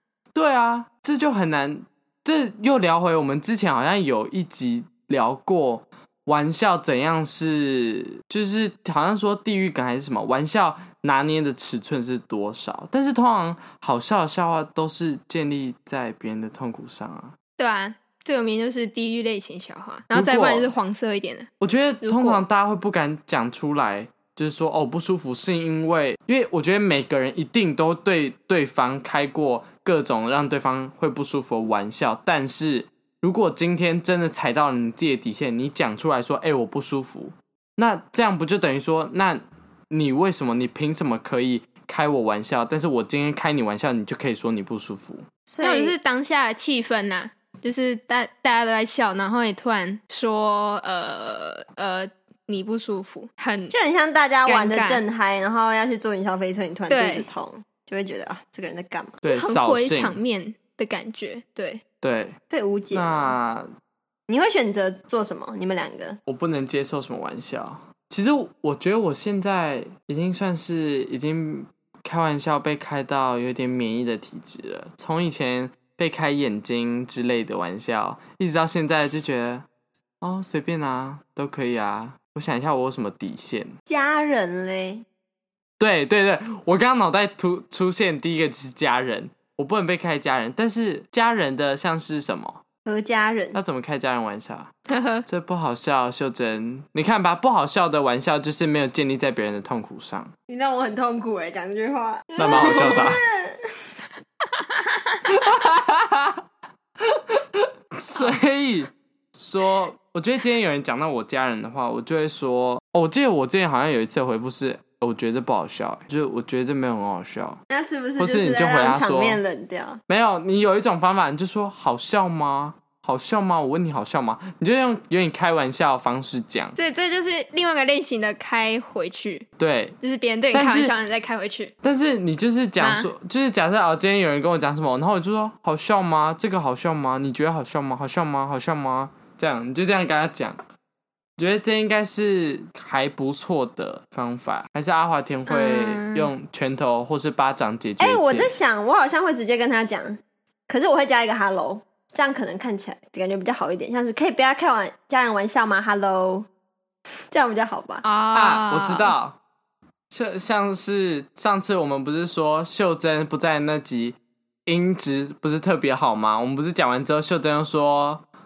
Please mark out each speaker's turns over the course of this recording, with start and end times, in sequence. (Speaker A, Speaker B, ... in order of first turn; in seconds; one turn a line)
Speaker A: 0.3-17.3
Speaker B: 17.6-21.5
Speaker A: 20.1-20.7
Speaker A: 21.6-45.2
Speaker B: 22.0-22.4
Speaker C: 45.5-45.9
Speaker B: 45.6-53.7
Speaker C: 53.7-59.1
Speaker B: 54.5-55.0
Speaker B: 56.9-57.3
Speaker A: 59.2-60.2
Speaker B: 59.2-61.8
Speaker A: 62.0-62.4
Speaker C: 62.5-63.3
Speaker A: 62.9-63.7
Speaker C: 64.3-66.2
Speaker A: 66.2-79.7
Speaker A: 80.2-83.7
Speaker C: 83.9-85.0
Speaker A: 85.8-92.6
Speaker C: 92.8-93.6
Speaker A: 93.5-94.7
Speaker B: 94.9-95.2
Speaker A: 95.2-100.3
Speaker C: 100.5-103.6
Speaker A: 102.4-103.2
Speaker B: 102.5-103.0
Speaker A: 105.3-106.4
Speaker A: 107.0-117.6
Speaker C: 117.7-120.0
Speaker A: 118.2-119.4
Speaker A: 120.1-126.7
Speaker B: 126.8-129.5
Speaker A: 129.6-129.9
Speaker B: 130.0-131.7
Speaker A: 130.5-130.9
Speaker A: 131.8-140.6
Speaker B: 132.8-133.1
Speaker A: 141.4-148.5
Speaker B: 145.5-146.3
Speaker C: 148.0-156.5
Speaker C: 157.3-158.0
Speaker B: 158.0-159.1
Speaker A: 158.3-159.4
Speaker A: 160.1-168.2